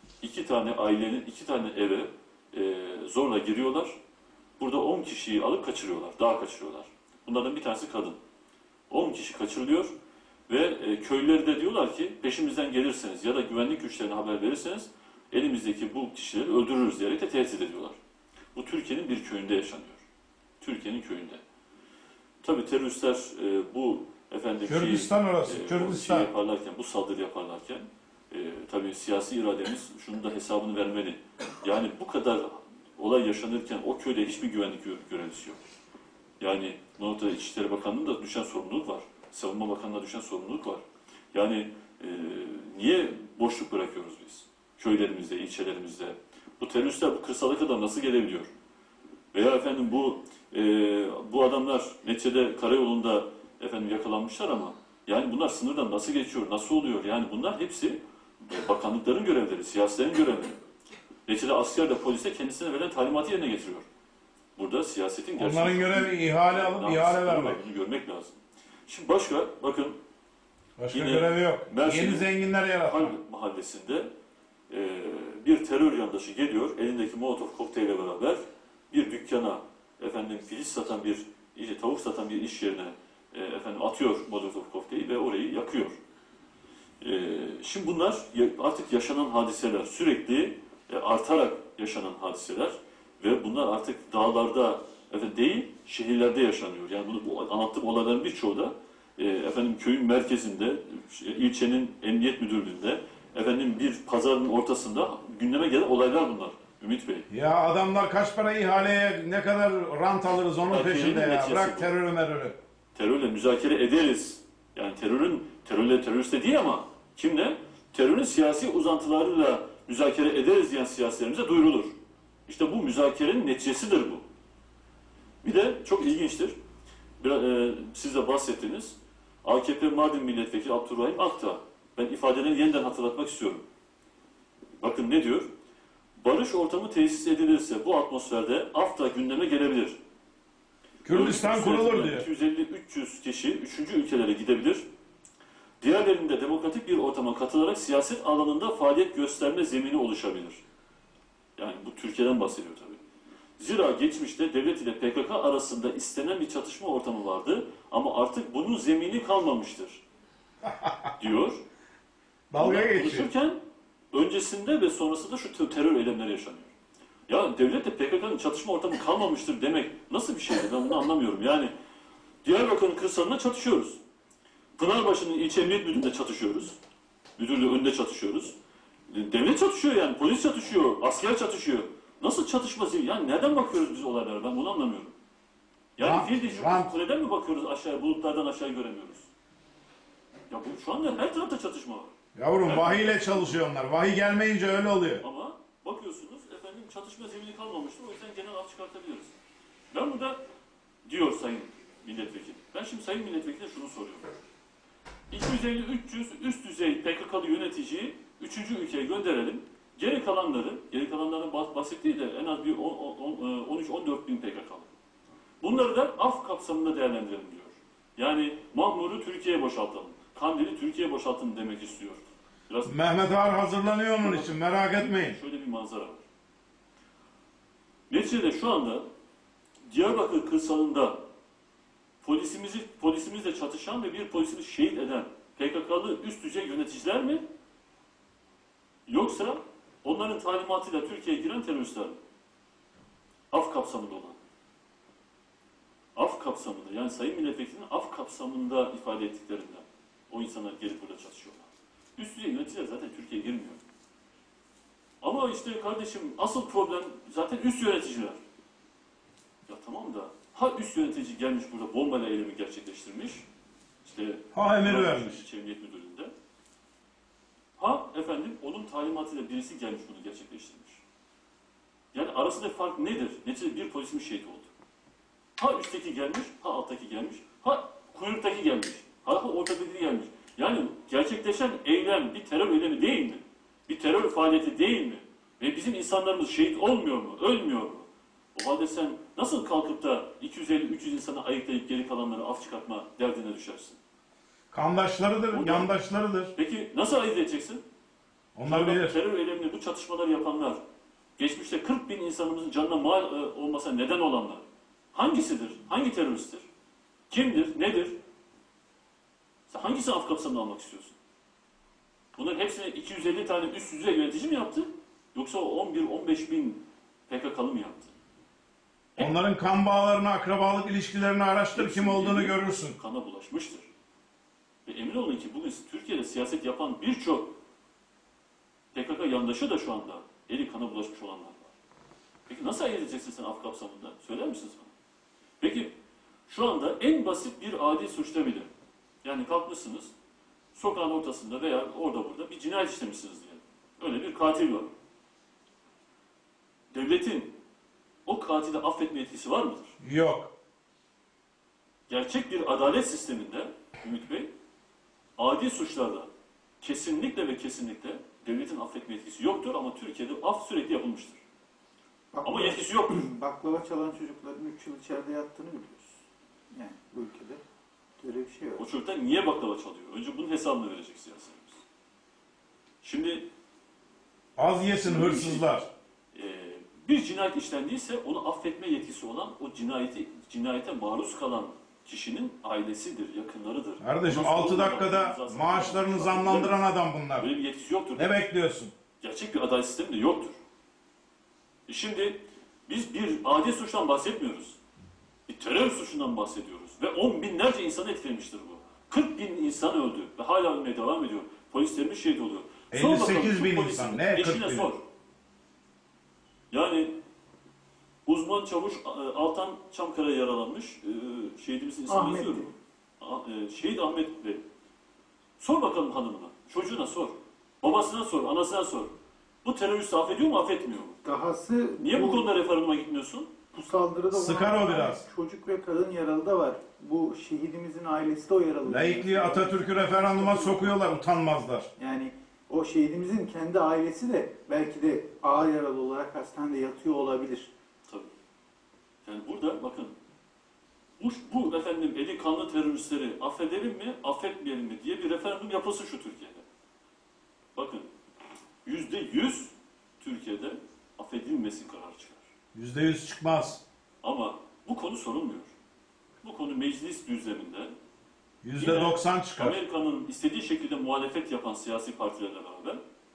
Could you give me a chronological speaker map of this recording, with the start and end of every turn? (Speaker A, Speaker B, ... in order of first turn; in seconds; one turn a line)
Speaker A: 0.2-4.0
Speaker A: 4.6-8.2
Speaker A: 8.9-9.9
Speaker A: 10.5-18.0
Speaker A: 18.5-20.0
Speaker A: 20.6-21.4
Speaker A: 22.4-35.6
Speaker B: 24.6-26.3
Speaker A: 36.4-48.5
Speaker A: 49.3-60.6
Speaker A: 61.3-63.9
Speaker A: 64.5-70.0
Speaker B: 65.4-67.6
Speaker B: 70.8-73.2
Speaker A: 70.9-72.3
Speaker A: 72.8-74.1
Speaker A: 74.7-86.0
Speaker A: 87.0-107.3
Speaker B: 107.3-112.6
Speaker A: 110.7-111.9
Speaker A: 112.9-124.2
Speaker A: 125.4-126.5
Speaker A: 127.2-133.6
Speaker A: 134.8-135.5
Speaker A: 136.2-140.0
Speaker B: 141.0-142.2
Speaker A: 141.1-144.8
Speaker A: 145.8-150.6
Speaker A: 151.6-153.0
Speaker A: 153.6-160.0
Speaker B: 160.6-161.1
Speaker A: 161.2-161.6
Speaker B: 162.5-163.3
Speaker A: 162.6-166.7
Speaker A: 167.3-171.7
Speaker A: 172.4-174.0
Speaker A: 174.8-176.8
Speaker A: 177.4-178.5
Speaker A: 179.1-185.1
Speaker A: 186.0-189.3
Speaker B: 186.0-186.9
Speaker A: 190.5-193.6
Speaker B: 192.3-195.2
Speaker A: 195.2-199.3
Speaker A: 199.9-200.4
Speaker A: 201.1-204.3
Speaker A: 205.3-214.9
Speaker A: 215.6-223.1
Speaker B: 222.8-225.4
Speaker A: 224.0-226.2
Speaker A: 228.1-229.0
Speaker A: 229.9-231.2
Speaker A: 232.2-237.4
Speaker A: 239.1-242.2
Speaker A: 243.5-244.4
Speaker A: 246.1-253.8
Speaker A: 255.2-258.4
Speaker A: 259.7-263.4
Speaker A: 264.0-266.3
Speaker B: 264.5-265.4
Speaker A: 267.8-271.0
Speaker A: 272.1-274.7
Speaker A: 275.6-294.0
Speaker B: 294.7-296.5
Speaker A: 295.5-295.9
Speaker A: 296.5-297.8
Speaker B: 298.5-299.1
Speaker A: 298.6-300.8
Speaker A: 301.4-306.6
Speaker A: 307.3-308.1
Speaker A: 309.7-311.1
Speaker A: 312.3-318.1
Speaker B: 319.2-322.9
Speaker A: 321.7-323.9
Speaker A: 324.8-327.5
Speaker A: 328.9-331.7
Speaker A: 332.5-334.9
Speaker A: 335.6-335.9
Speaker A: 336.5-338.7
Speaker A: 339.2-340.1
Speaker A: 340.7-344.9
Speaker A: 346.9-347.5
Speaker A: 348.2-350.0
Speaker B: 350.0-350.5
Speaker A: 352.1-354.5
Speaker A: 355.4-356.3
Speaker A: 356.8-361.4
Speaker C: 362.3-366.2
Speaker A: 362.4-363.3
Speaker C: 366.7-367.6
Speaker C: 368.2-368.8
Speaker A: 368.8-371.8
Speaker A: 373.0-373.5
Speaker B: 374.6-375.9
Speaker A: 374.9-386.8
Speaker B: 384.0-387.5
Speaker A: 387.4-388.5
Speaker B: 388.1-388.9
Speaker A: 389.2-390.6
Speaker A: 391.9-394.8
Speaker A: 395.5-405.0
Speaker B: 402.9-404.9
Speaker A: 406.7-407.1
Speaker A: 408.2-414.6
Speaker C: 412.1-412.7
Speaker A: 415.6-419.1
Speaker A: 419.6-421.2
Speaker C: 421.2-422.5
Speaker A: 422.0-423.5
Speaker C: 423.7-431.0
Speaker B: 424.3-425.2
Speaker B: 428.8-431.9
Speaker C: 432.0-437.7
Speaker A: 439.2-440.1
Speaker A: 441.2-446.6
Speaker A: 447.7-448.1
Speaker A: 448.8-452.4
Speaker B: 452.7-453.8
Speaker A: 454.2-455.7
Speaker A: 456.4-457.9
Speaker B: 458.6-459.8
Speaker A: 458.8-463.0